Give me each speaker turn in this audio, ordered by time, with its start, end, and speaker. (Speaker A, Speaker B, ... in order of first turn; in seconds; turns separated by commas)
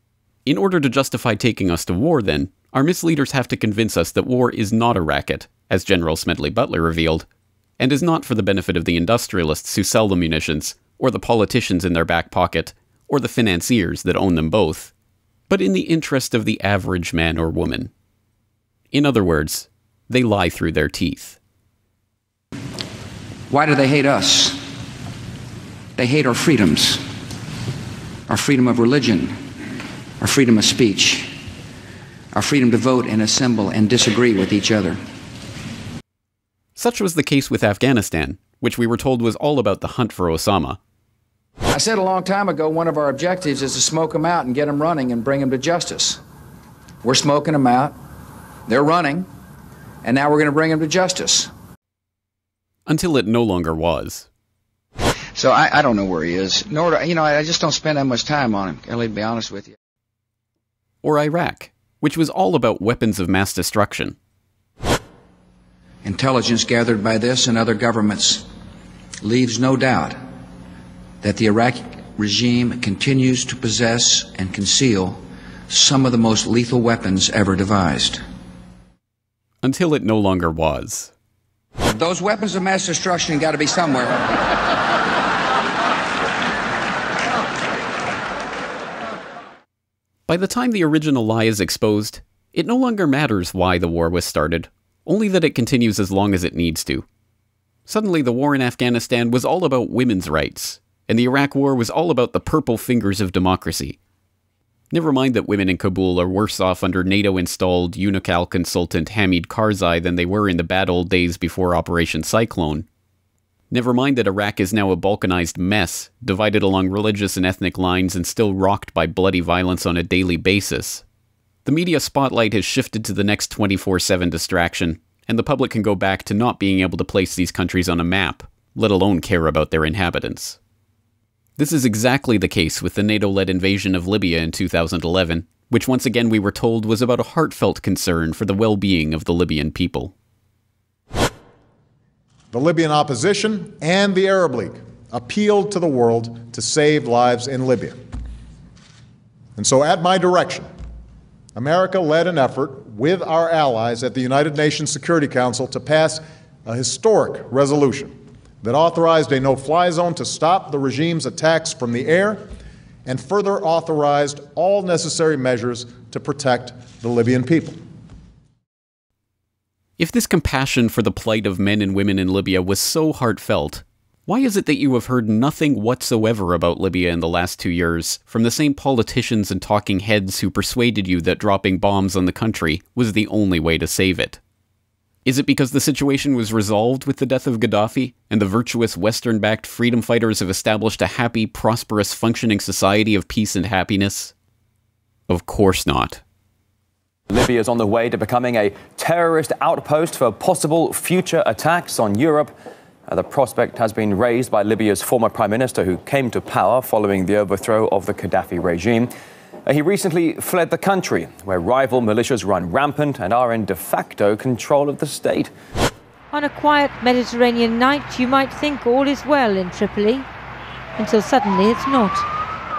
Speaker A: 0.5-7.3, Speaker A: 7.8-14.9, Speaker A: 15.5-17.9, Speaker A: 18.9-21.4, Speaker B: 23.5-24.6, Speaker B: 26.0-27.0, Speaker B: 28.3-29.4, Speaker B: 30.2-31.4, Speaker B: 32.3-35.0, Speaker A: 36.8-40.8, Speaker B: 41.7-46.2, Speaker B: 47.0-48.0, Speaker B: 48.7-49.3, Speaker B: 50.0-51.5, Speaker A: 52.9-54.3, Speaker B: 55.4-59.7, Speaker A: 61.0-64.2, Speaker B: 66.0-68.5, Speaker B: 69.2-70.2, Speaker B: 71.2-75.2, Speaker B: 75.7-78.2, Speaker A: 79.6-81.1, Speaker B: 81.9-84.2, Speaker A: 90.3-97.1, Speaker A: 97.9-104.0, Speaker A: 104.9-112.9, Speaker A: 113.7-121.0, Speaker A: 121.7-130.6, Speaker A: 131.6-140.1, Speaker C: 142.5-148.0, Speaker C: 149.6-150.7, Speaker C: 151.6-162.4, Speaker C: 163.1-167.8, Speaker A: 170.0-184.4, Speaker A: 185.2-194.3, Speaker A: 195.3-196.2, Speaker D: 197.3-202.5, Speaker D: 203.1-209.1, Speaker D: 209.7-215.5, Speaker E: 216.3-220.3, Speaker E: 221.0-222.2